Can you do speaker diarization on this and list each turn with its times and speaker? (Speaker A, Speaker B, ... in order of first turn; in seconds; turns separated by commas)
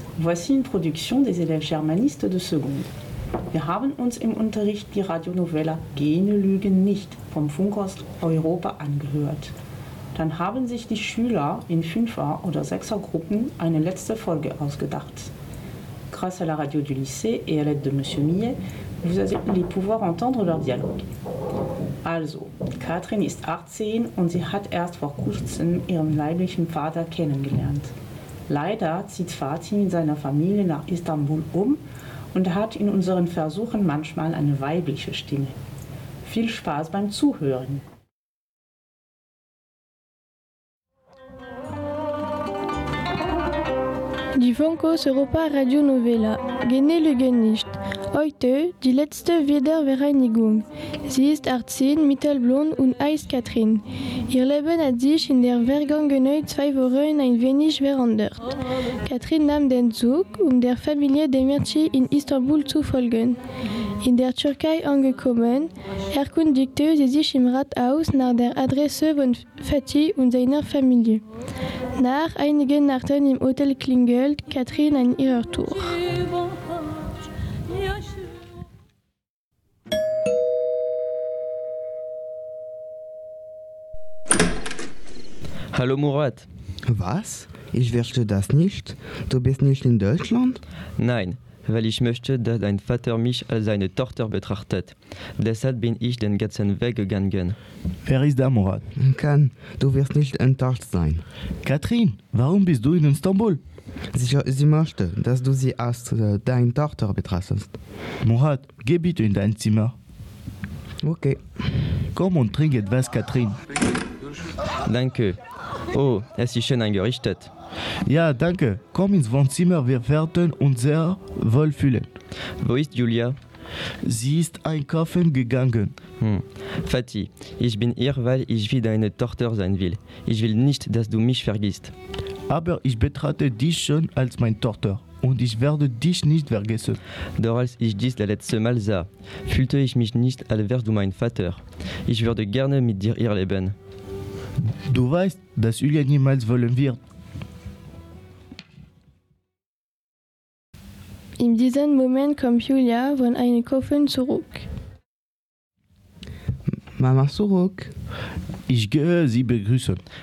Speaker A: 0.2-2.9, Speaker A: 3.5-9.5, Speaker A: 10.2-15.3, Speaker A: 16.1-21.1, Speaker A: 22.0-27.9, Speaker A: 28.5-35.6, Speaker A: 36.2-37.8, Speaker B: 44.4-63.4, Speaker B: 64.0-71.2, Speaker B: 72.0-76.1, Speaker C: 85.7-86.5, Speaker D: 86.9-90.6, Speaker C: 91.0-97.6, Speaker E: 98.1-98.8, Speaker D: 99.0-101.2, Speaker E: 101.6-103.6, Speaker D: 104.1-107.7, Speaker E: 108.2-109.9, Speaker D: 111.0-111.4, Speaker E: 112.2-113.6, Speaker C: 114.9-115.4, Speaker C: 115.9-117.5, Speaker E: 118.1-122.1, Speaker C: 122.6-123.4, Speaker E: 124.0-126.0, Speaker C: 126.2-131.9, Speaker E: 132.5-137.0, Speaker C: 137.4-143.8, Speaker E: 144.9-147.0, Speaker B: 151.4-154.7, Speaker D: 156.9-157.9, Speaker E: 158.7-160.0